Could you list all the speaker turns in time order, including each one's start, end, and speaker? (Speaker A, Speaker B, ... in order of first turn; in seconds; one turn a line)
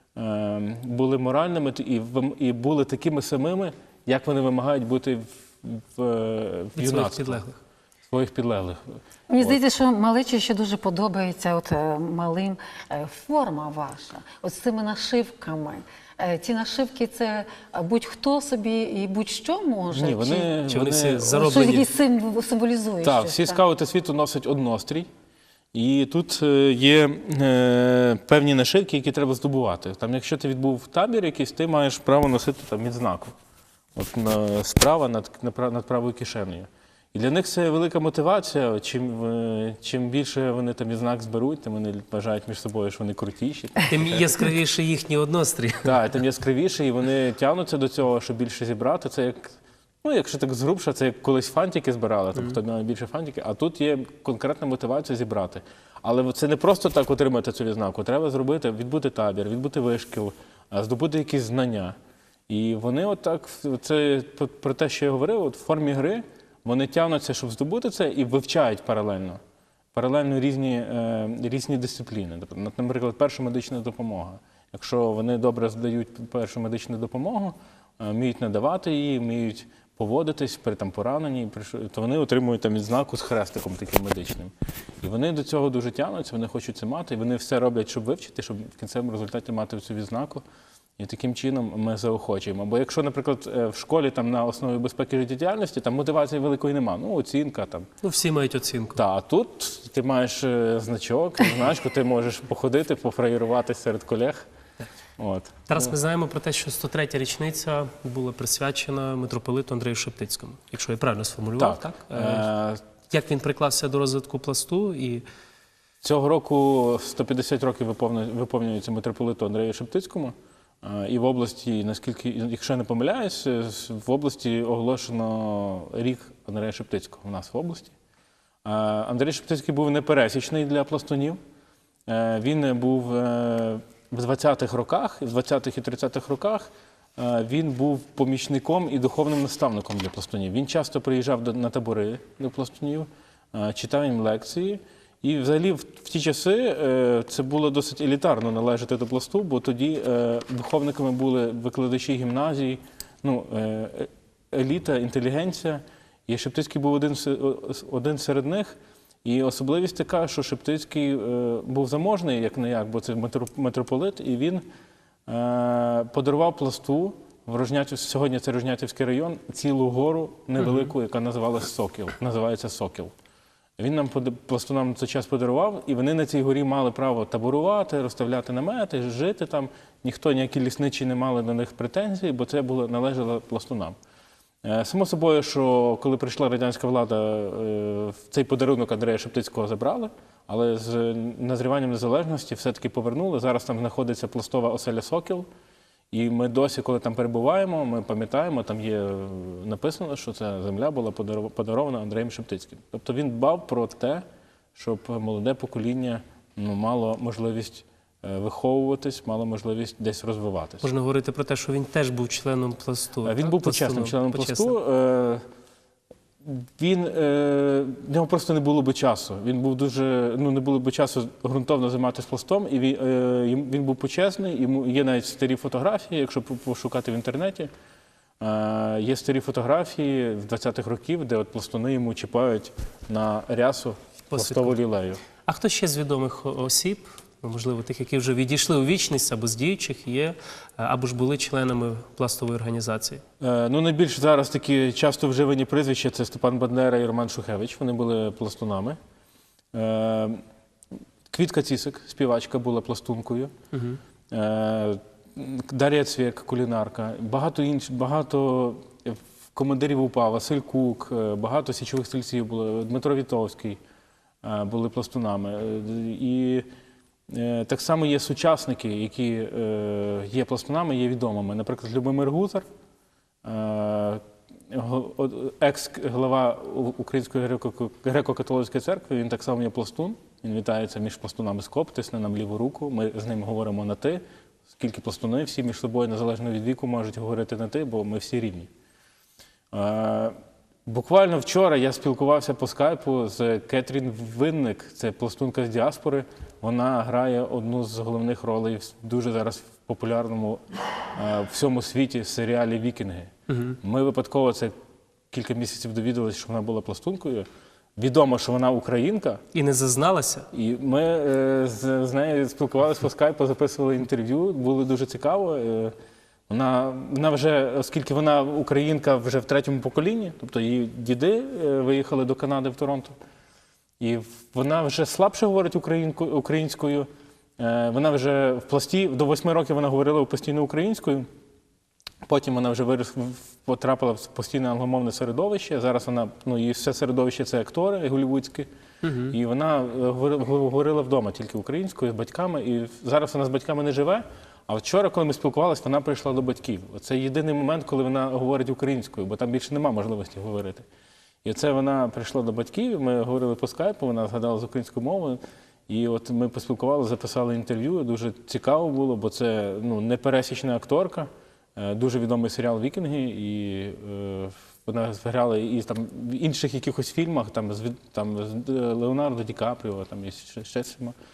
Speaker A: 0.1-7.5
Speaker B: 6.8-7.5
Speaker A: 8.1-9.6
Speaker C: 9.3-20.5
Speaker A: 19.9-21.4
Speaker B: 20.7-21.9
Speaker C: 21.3-23.6
Speaker A: 23.0-25.1
Speaker A: 25.7-33.3
Speaker A: 34.0-44.2
Speaker B: 43.9-46.0
Speaker A: 45.8-62.0
Speaker A: 62.5-69.4
Speaker A: 69.9-90.4
Speaker A: 91.0-97.9
Speaker B: 98.0-99.0
Speaker A: 98.9-104.5
Speaker A: 105.2-105.9
Speaker B: 105.7-112.5
Speaker A: 111.6-112.8
Speaker B: 113.1-115.2
Speaker A: 116.0-127.9
Speaker A: 128.6-131.4
Speaker A: 132.1-164.6
Speaker A: 165.3-173.1
Speaker A: 173.8-183.9
Speaker A: 184.6-195.5
Speaker A: 196.1-204.2
Speaker A: 204.8-210.9
Speaker B: 210.8-214.8
Speaker A: 213.2-215.4
Speaker A: 216.4-227.7
Speaker A: 228.4-235.2
Speaker B: 234.3-234.8
Speaker B: 235.4-243.2
Speaker A: 243.4-249.0
Speaker A: 249.7-250.4
Speaker A: 251.3-253.5
Speaker B: 253.7-254.0
Speaker A: 254.3-263.8
Speaker A: 264.4-266.6
Speaker A: 267.3-272.6
Speaker A: 273.4-288.7
Speaker A: 289.7-290.3
Speaker A: 290.9-300.6
Speaker A: 301.1-304.7
Speaker B: 303.5-303.8
Speaker A: 305.3-307.4
Speaker A: 308.0-309.4
Speaker B: 309.5-310.5
Speaker A: 310.5-315.9
Speaker A: 316.5-323.1
Speaker A: 324.0-327.1
Speaker A: 327.6-331.3
Speaker A: 332.2-338.7
Speaker B: 339.0-339.4
Speaker A: 339.3-350.9
Speaker A: 351.4-371.1